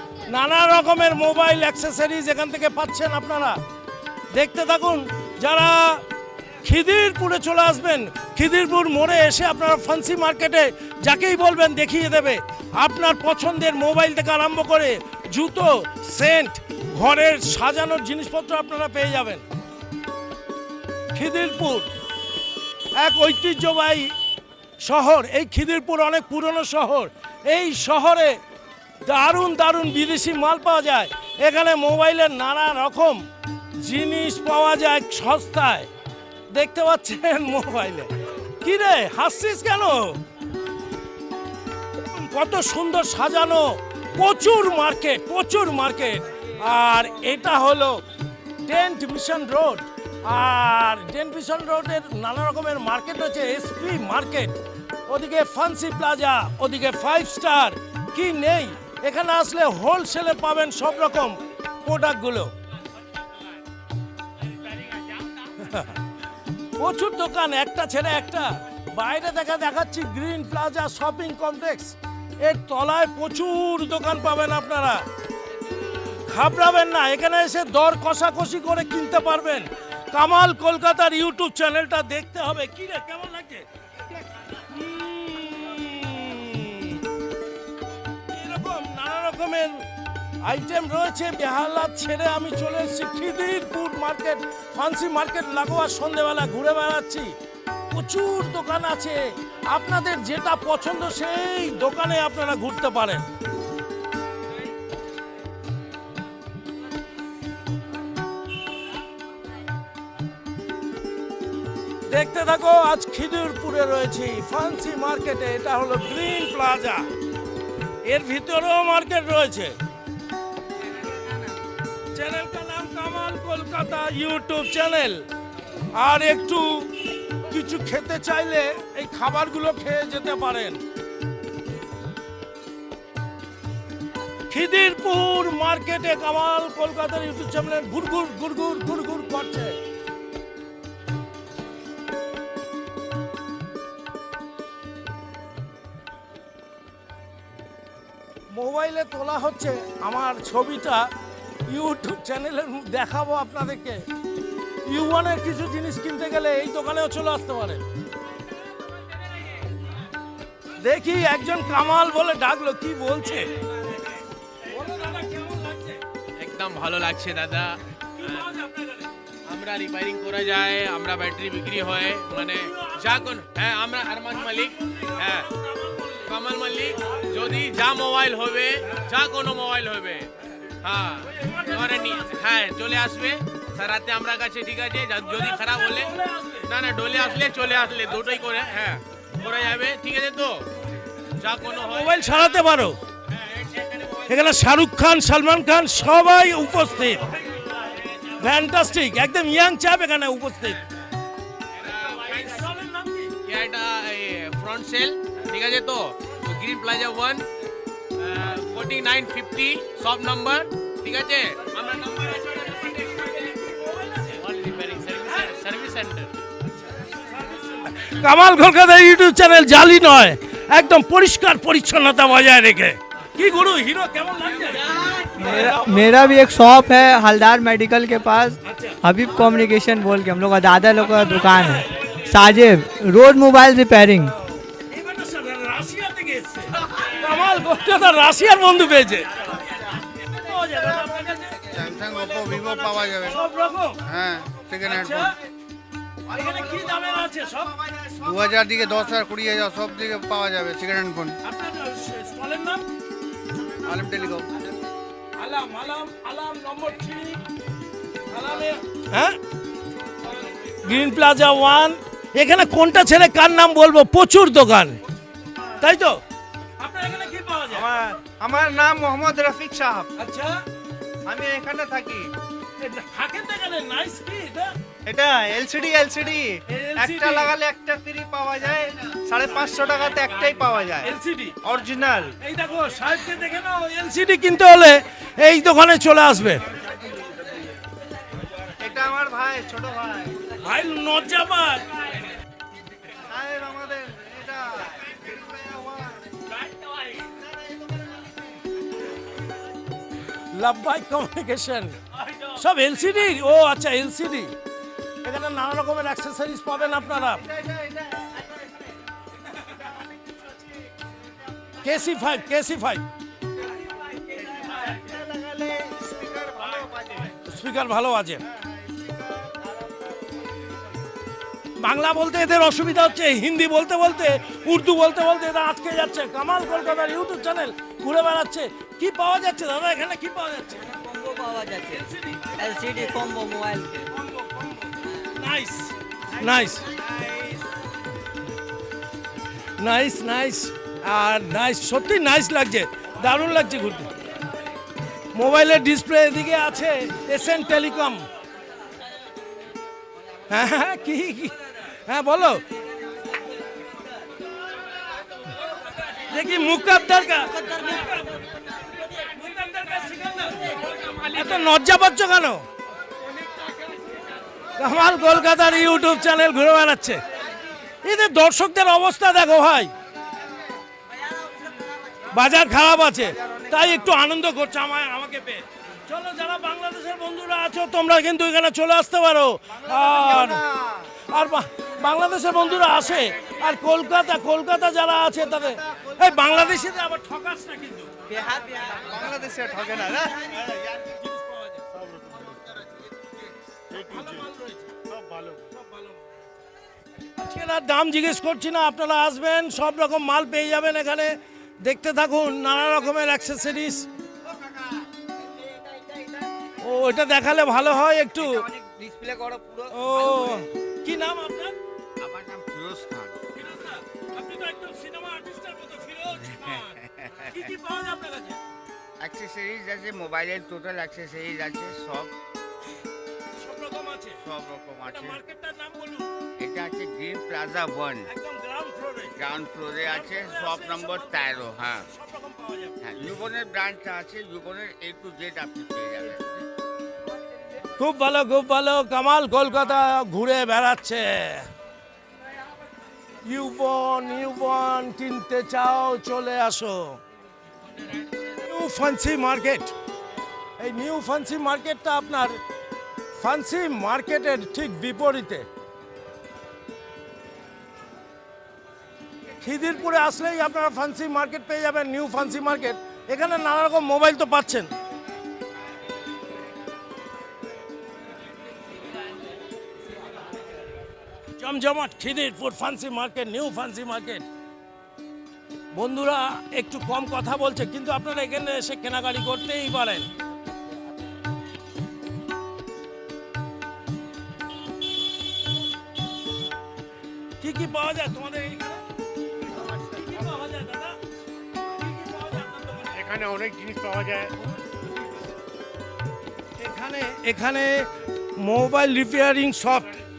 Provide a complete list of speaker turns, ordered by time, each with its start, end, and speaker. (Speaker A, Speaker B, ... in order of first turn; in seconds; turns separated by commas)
Speaker A: 0.3-3.6, Speaker A: 4.3-6.0, Speaker A: 6.6-19.4, Speaker A: 21.1-21.9, Speaker A: 23.0-24.1, Speaker A: 24.8-28.4, Speaker A: 29.1-33.2, Speaker A: 33.8-35.9, Speaker A: 36.5-40.2, Speaker A: 42.0-48.0, Speaker A: 48.6-62.5, Speaker A: 65.6-66.0, Speaker A: 66.8-75.0, Speaker A: 76.3-83.7, Speaker A: 84.5-87.0, Speaker A: 88.3-89.8, Speaker A: 90.4-97.3, Speaker A: 97.9-103.2, Speaker A: 112.1-117.1, Speaker A: 118.0-119.8, Speaker A: 122.1-125.2, Speaker A: 126.0-130.8, Speaker A: 134.5-139.8, Speaker A: 148.5-151.1, Speaker A: 151.7-154.0, Speaker A: 154.8-157.8, Speaker A: 160.8-163.6, Speaker A: 164.6-166.0, Speaker B: 166.4-168.5, Speaker A: 168.2-169.1, Speaker B: 169.5-175.5, Speaker A: 172.6-173.3, Speaker A: 174.3-176.3, Speaker B: 176.3-180.3, Speaker B: 180.8-186.1, Speaker A: 181.2-182.4, Speaker A: 185.2-186.7, Speaker B: 186.7-190.7, Speaker B: 191.4-192.2, Speaker A: 191.8-193.0, Speaker B: 193.4-194.1, Speaker A: 194.3-197.3, Speaker A: 198.3-200.8, Speaker B: 201.8-202.6, Speaker A: 202.3-203.3, Speaker B: 203.4-207.4, Speaker B: 208.2-213.2, Speaker A: 212.7-214.4, Speaker B: 214.4-216.3, Speaker A: 217.0-224.9, Speaker C: 225.4-231.9, Speaker D: 225.4-234.2, Speaker A: 228.7-229.0, Speaker A: 231.0-232.1, Speaker C: 232.5-233.8, Speaker A: 234.3-239.5, Speaker A: 240.3-241.7, Speaker E: 241.7-243.4, Speaker A: 243.2-244.0, Speaker E: 244.0-245.3, Speaker A: 244.8-245.3, Speaker A: 246.3-247.8, Speaker F: 247.8-248.3, Speaker E: 248.2-251.4, Speaker A: 251.4-252.8, Speaker E: 253.8-254.5, Speaker A: 255.4-257.4, Speaker A: 258.3-259.4, Speaker A: 260.7-265.0, Speaker A: 265.8-266.2, Speaker A: 266.8-267.9, Speaker F: 267.7-270.1, Speaker A: 270.2-270.6, Speaker F: 271.3-272.3, Speaker A: 272.8-274.7, Speaker F: 275.1-281.1, Speaker A: 276.7-277.6, Speaker A: 281.0-281.6, Speaker F: 281.6-282.3, Speaker A: 282.4-286.6, Speaker F: 288.8-290.4, Speaker A: 290.6-291.9, Speaker F: 293.2-296.3, Speaker F: 297.4-298.3, Speaker A: 300.5-304.5, Speaker A: 305.2-307.5, Speaker F: 307.4-308.5, Speaker A: 311.8-313.0, Speaker F: 314.4-317.3, Speaker A: 317.4-318.4, Speaker F: 318.5-319.7, Speaker A: 321.8-330.9, Speaker C: 330.9-332.0, Speaker D: 331.0-331.6, Speaker A: 331.9-333.2, Speaker C: 332.6-334.0, Speaker D: 333.1-333.6, Speaker A: 334.1-336.9, Speaker A: 339.8-344.1, Speaker A: 345.3-348.2, Speaker A: 350.5-352.6, Speaker A: 356.2-358.4, Speaker A: 359.1-362.6, Speaker A: 364.8-367.2, Speaker A: 368.0-369.9, Speaker A: 372.3-380.6, Speaker F: 373.4-373.9, Speaker F: 379.8-381.1, Speaker A: 381.2-388.2, Speaker C: 388.3-388.9, Speaker F: 388.4-391.0, Speaker A: 391.0-391.9, Speaker G: 392.0-392.8, Speaker A: 393.9-395.0, Speaker G: 393.9-394.4, Speaker G: 395.1-395.6, Speaker A: 395.7-396.2, Speaker A: 397.4-404.1, Speaker A: 406.8-408.6, Speaker E: 408.7-409.8, Speaker A: 409.9-411.8, Speaker E: 412.2-413.4, Speaker A: 413.5-418.6, Speaker E: 416.5-417.6, Speaker E: 419.2-422.3, Speaker A: 423.6-424.4, Speaker E: 424.4-425.4, Speaker A: 425.1-426.3, Speaker E: 426.6-428.3, Speaker A: 428.3-429.4, Speaker E: 429.4-432.1, Speaker A: 430.1-433.0, Speaker E: 433.0-436.6, Speaker A: 438.0-441.7, Speaker A: 443.4-447.2, Speaker A: 448.6-449.9, Speaker A: 450.8-452.6, Speaker A: 453.4-455.7, Speaker A: 459.6-464.9, Speaker A: 471.6-474.5, Speaker A: 475.9-480.3, Speaker A: 487.6-489.0, Speaker A: 489.8-491.2, Speaker A: 491.8-493.2, Speaker G: 493.2-494.5, Speaker A: 496.8-500.2